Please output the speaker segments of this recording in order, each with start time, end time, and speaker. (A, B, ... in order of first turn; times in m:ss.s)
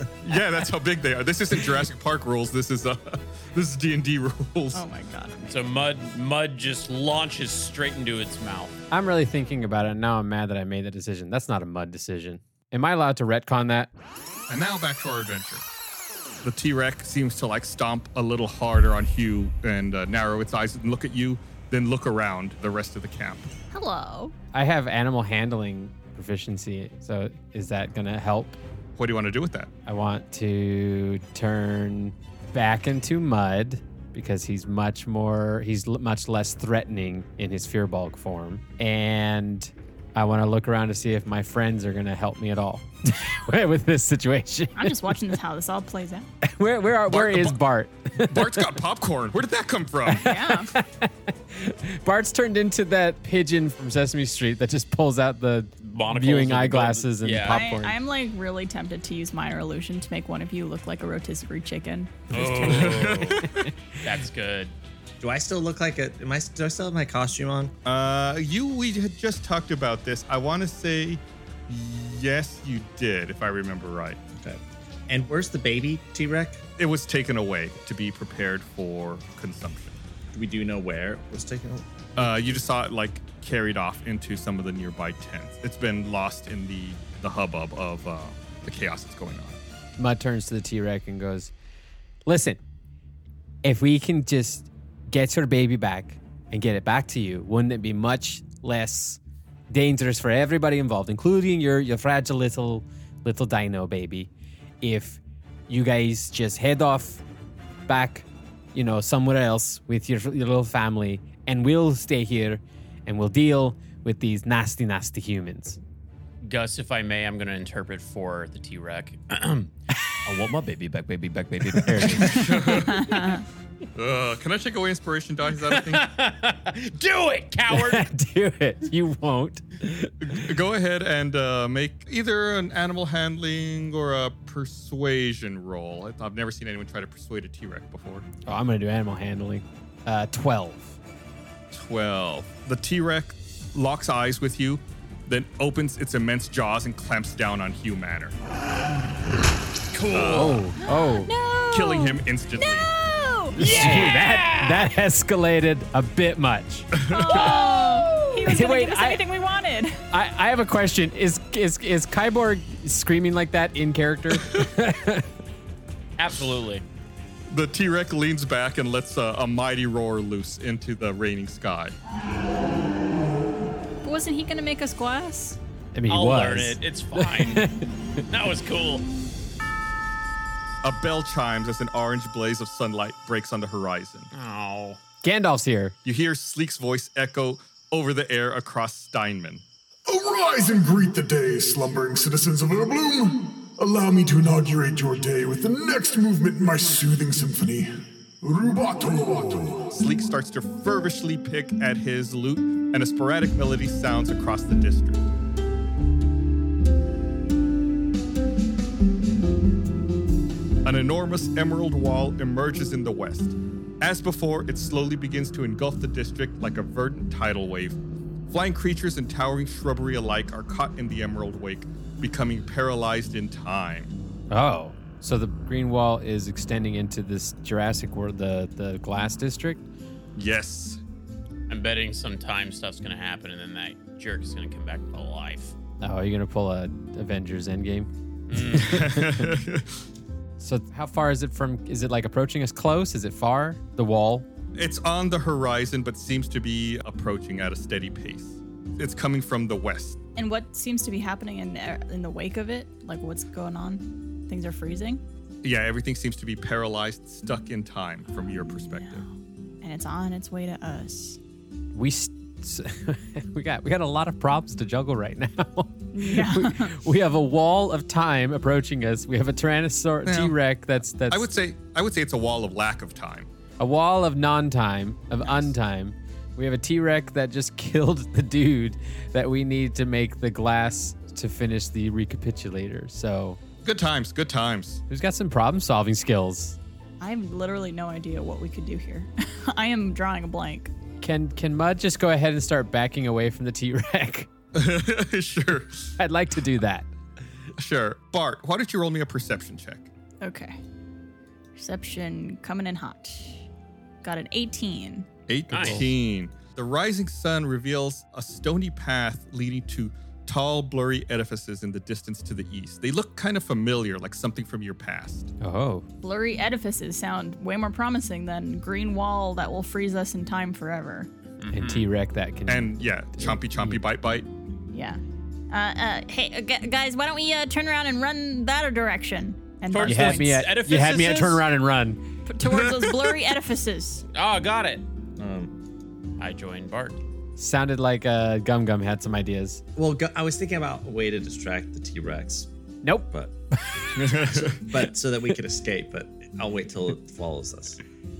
0:00.2-0:04.8 A
0:04.7-0:05.7 B
0:05.5-0:08.8 C
0:08.9-0:13.9 D
0:14.5-0:15.6 A
0:16.4-0:23.5 A
0:23.7-0:24.3 B
0:24.5-0:28.6 D
0:29.0-0:29.7 A
0:29.8-0:45.2 D
0:44.8-0:46.3 B
0:46.4-0:48.7 D
0:47.1-0:47.6 A
0:48.2-0:50.4 A
0:50.1-0:58.0 D
0:50.2-0:50.7 B
0:55.8-0:57.6 C
0:57.5-1:03.2 B
1:02.3-1:03.4 C
1:02.6-1:03.4 A
1:04.0-1:04.7 C
1:05.2-1:07.7 E
1:07.8-1:14.2 A
1:14.4-1:16.6 E
1:16.8-1:20.0 A
1:20.3-1:21.8 E
1:22.2-1:29.6 A
1:30.0-1:31.5 D
1:32.2-1:32.6 D
1:33.6-1:44.3 D
1:44.8-1:47.2 D
1:47.9-1:55.8 D
1:56.4-1:59.7 C
2:00.2-2:02.3 C
2:01.7-2:02.9 D
2:02.3-2:03.3 A
2:02.7-2:03.4 B
2:03.9-2:06.0 A
2:05.7-2:08.0 C
2:07.7-2:10.4 D
2:10.2-2:18.3 A
2:18.4-2:21.0 D
2:21.7-2:28.3 A
2:29.9-2:30.6 C
2:30.1-2:30.6 A
2:30.3-2:31.3 D
2:30.8-2:34.2 B
2:31.7-2:32.9 A
2:33.6-2:34.9 C
2:33.6-2:36.9 D
2:36.9-2:37.4 A
2:37.0-2:40.0 B
2:37.3-2:38.5 C
2:38.4-2:39.2 D
2:40.1-2:45.3 D
2:46.2-2:46.8 C
2:47.5-2:52.0 A
2:54.0-2:55.6 B
2:55.9-2:57.8 D
2:56.1-2:57.6 C
2:58.3-2:59.0 C
3:00.8-3:04.3 A
3:04.3-3:05.0 C
3:05.2-3:05.9 D
3:06.0-3:09.6 A
3:10.1-3:17.9 F
3:18.4-3:19.9 F
3:19.9-3:25.3 A
3:30.8-3:38.0 A
3:38.5-3:44.1 A
3:44.5-3:49.8 D
3:50.3-3:51.0 A
3:51.7-3:55.7 C
3:56.0-3:59.6 D
3:58.5-3:59.0 C
3:58.7-4:00.0 A
4:00.6-4:04.5 D
4:04.7-4:10.2 A
4:10.4-4:15.2 B
4:15.6-4:19.2 A
4:18.3-4:19.2 B
4:19.8-4:21.4 B
4:21.9-4:31.5 D
4:26.1-4:27.0 B
4:30.2-4:30.5 A
4:31.3-4:33.5 A
4:33.8-4:43.6 D
4:43.8-4:45.0 A
4:45.1-4:46.8 D
4:47.2-4:50.9 B
4:51.2-4:54.5 D
4:54.7-4:56.1 A
4:56.2-4:57.1 D
4:57.8-5:00.1 A
5:00.4-5:00.8 B
5:01.8-5:03.7 B
5:04.2-5:05.3 B
5:05.5-5:15.5 A
5:05.7-5:06.1 C
5:05.7-5:06.1 D
5:15.6-5:16.0 D
5:16.2-5:21.3 B
5:21.6-5:22.1 C
5:21.7-5:24.0 D
5:22.7-5:24.5 A
5:24.9-5:30.7 B
5:29.9-5:31.7 C
5:30.0-5:32.2 D
5:32.4-5:34.2 B
5:32.6-5:33.3 A
5:34.3-5:35.0 C
5:35.4-5:35.7 E
5:36.4-5:37.2 C
5:37.6-5:39.8 D
5:40.0-5:42.7 E
5:43.0-5:44.6 D
5:44.1-5:44.8 A
5:44.5-5:48.0 E